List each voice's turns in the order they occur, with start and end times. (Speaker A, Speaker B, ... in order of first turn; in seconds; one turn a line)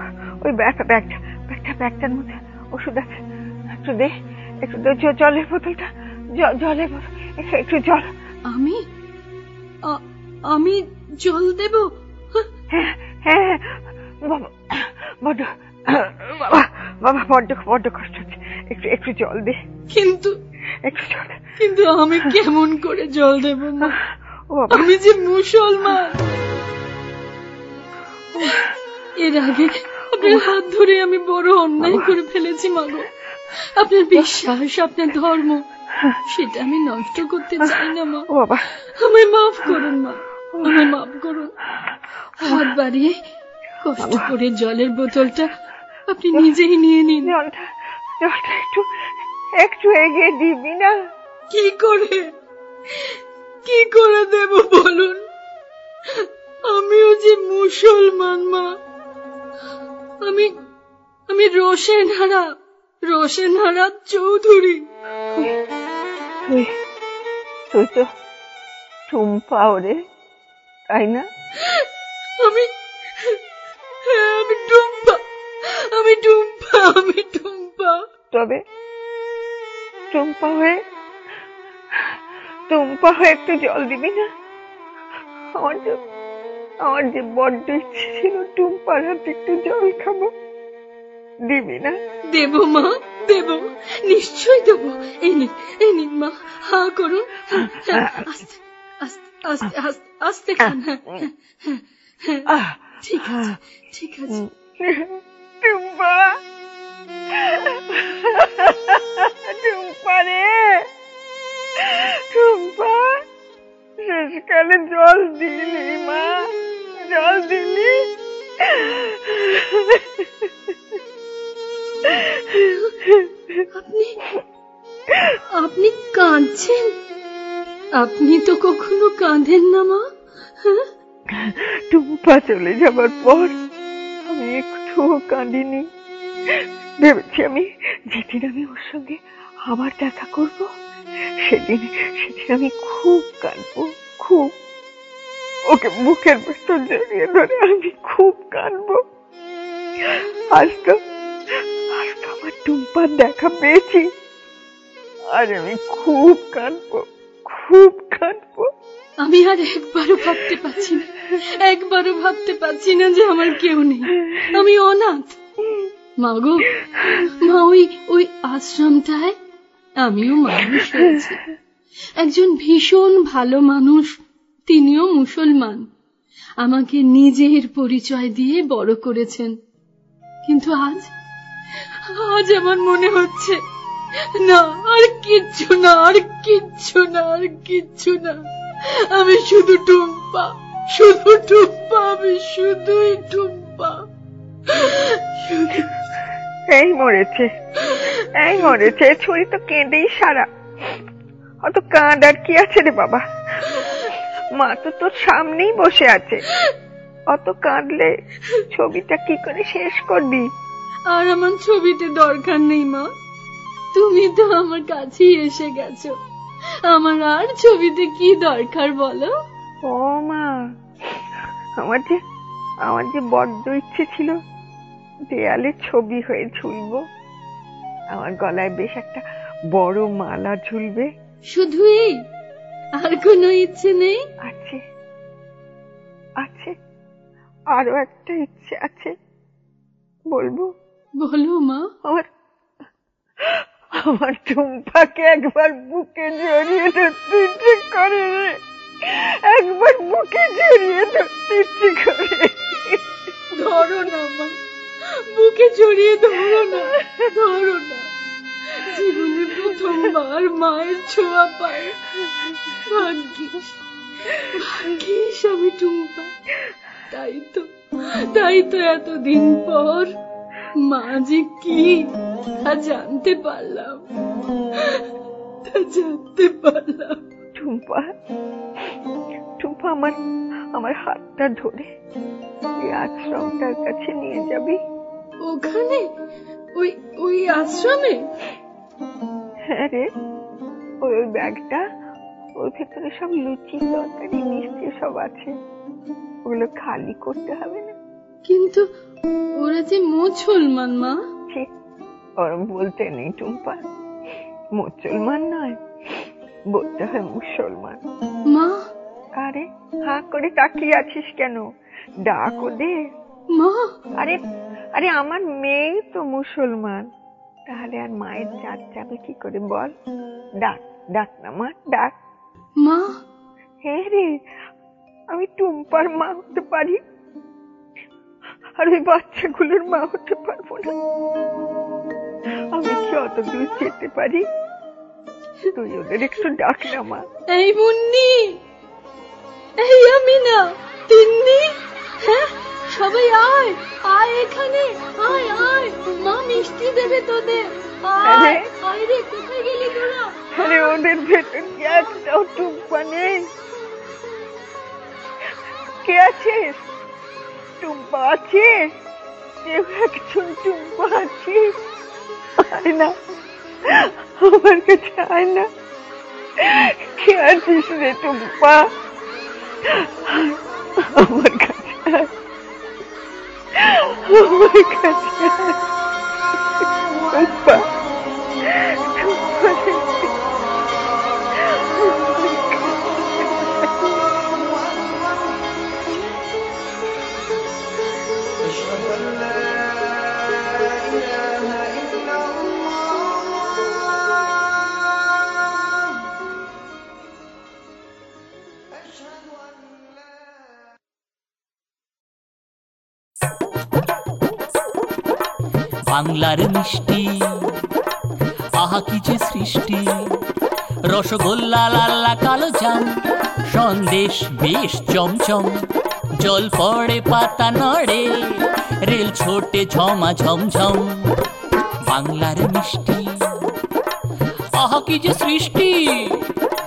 Speaker A: 0.4-3.1
Speaker A: 3.7-4.1
Speaker A: 4.6-8.0
Speaker B: 8.5-8.8
Speaker B: 9.9-12.4
Speaker A: 12.7-19.6
Speaker B: 19.9-20.3
Speaker A: 20.8-21.4
Speaker B: 21.6-24.0
Speaker A: 24.5-24.9
Speaker B: 24.7-26.4
Speaker B: 28.4-28.7
Speaker B: 29.2-33.1
Speaker A: 31.8-32.1
Speaker B: 33.7-35.6
Speaker A: 34.1-34.5
Speaker B: 36.3-38.3
Speaker A: 38.3-38.6
Speaker B: 39.0-41.5
Speaker A: 40.5-40.9
Speaker B: 42.4-43.1
Speaker B: 43.8-45.5
Speaker A: 44.0-44.3
Speaker B: 46.1-47.3
Speaker A: 47.2-47.6
Speaker A: 48.2-48.8
Speaker A: 49.6-50.9
Speaker B: 51.5-52.3
Speaker B: 53.6-55.2
Speaker B: 56.7-58.7
Speaker B: 60.2-60.5
Speaker B: 61.3-62.5
Speaker B: 63.1-64.9
Speaker A: 67.7-68.0
Speaker A: 69.1-69.9
Speaker A: 70.9-71.2
Speaker B: 72.4-72.7
Speaker B: 74.0-75.2
Speaker B: 75.9-78.0
Speaker A: 78.3-78.6
Speaker A: 80.1-80.8
Speaker A: 82.7-84.2
Speaker A: 85.5-86.0
Speaker A: 86.8-90.3
Speaker A: 91.5-92.0
Speaker B: 92.3-104.4
Speaker A: 102.5-103.6
Speaker A: 104.3-106.3
Speaker A: 107.4-110.9
Speaker A: 111.8-113.2
Speaker A: 114.0-116.5
Speaker A: 117.1-117.9
Speaker A: 118.6-120.5
Speaker A: 122.1-123.6
Speaker B: 123.7-124.2
Speaker B: 125.6-126.9
Speaker B: 128.0-130.0
Speaker A: 131.3-133.5
Speaker A: 134.3-135.8
Speaker A: 137.0-140.7
Speaker A: 141.4-144.5
Speaker A: 145.7-149.0
Speaker A: 150.0-150.9
Speaker A: 151.9-154.0
Speaker A: 155.3-158.7
Speaker B: 159.2-165.4
Speaker B: 166.2-169.3
Speaker B: 170.0-171.4
Speaker B: 172.2-174.1
Speaker B: 174.7-175.8
Speaker B: 176.6-179.5
Speaker B: 180.4-181.1
Speaker B: 182.2-183.6
Speaker B: 184.4-188.4
Speaker B: 189.1-194.0
Speaker B: 194.7-196.1
Speaker A: 196.7-197.4
Speaker A: 198.3-200.5
Speaker A: 201.6-206.4
Speaker A: 207.3-208.1
Speaker A: 208.7-210.4
Speaker B: 211.1-213.1
Speaker B: 213.9-216.1
Speaker B: 216.9-219.3
Speaker A: 219.8-220.5
Speaker A: 221.8-222.1
Speaker A: 222.8-224.3
Speaker A: 225.3-227.0
Speaker A: 228.1-229.2
Speaker A: 229.7-231.1
Speaker B: 231.5-232.1
Speaker B: 233.0-234.2
Speaker A: 234.4-234.8
Speaker A: 236.4-236.7
Speaker A: 237.7-239.1
Speaker A: 240.3-240.7
Speaker B: 241.2-241.8
Speaker A: 243.5-253.0
Speaker B: 253.5-254.6
Speaker B: 255.3-258.0
Speaker A: 256.4-257.2
Speaker B: 258.7-262.0
Speaker B: 262.8-263.7
Speaker B: 264.3-266.3
Speaker B: 267.1-267.7
Speaker B: 268.3-270.1
Speaker B: 270.8-274.0
Speaker B: 275.6-277.2
Speaker A: 277.6-278.1
Speaker A: 279.6-280.1
Speaker A: 280.8-281.9
Speaker A: 282.8-284.8
Speaker B: 285.4-286.1
Speaker B: 286.8-288.2
Speaker A: 289.7-290.0
Speaker A: 291.0-291.8
Speaker A: 292.6-295.5
Speaker A: 296.5-297.9
Speaker B: 298.4-298.8
Speaker B: 299.6-301.1
Speaker A: 302.4-303.8
Speaker A: 304.8-305.7
Speaker A: 306.7-308.0
Speaker B: 308.5-308.8
Speaker A: 309.4-311.6
Speaker A: 312.2-312.9
Speaker B: 313.5-313.9
Speaker A: 314.9-317.0
Speaker A: 317.7-319.9
Speaker A: 320.6-322.1
Speaker B: 322.8-323.1
Speaker A: 323.8-324.3
Speaker A: 325.3-327.0
Speaker A: 328.8-330.9
Speaker A: 332.7-334.4
Speaker A: 335.8-337.2
Speaker B: 337.5-338.6
Speaker B: 339.8-350.9
Speaker A: 348.2-348.6
Speaker A: 350.6-353.4
Speaker A: 356.0-356.8
Speaker A: 357.8-358.8
Speaker A: 359.6-361.7
Speaker A: 362.6-363.1
Speaker A: 363.9-365.6
Speaker A: 366.6-368.8
Speaker A: 369.9-370.6
Speaker A: 371.1-372.3
Speaker A: 373.8-375.8
Speaker A: 377.3-377.8
Speaker A: 378.7-380.3
Speaker A: 381.6-383.9
Speaker C: 406.1-407.7
Speaker C: 408.8-410.4
Speaker C: 411.1-413.1
Speaker C: 413.7-415.8
Speaker C: 416.4-421.0
Speaker C: 422.0-423.2
Speaker C: 424.8-426.4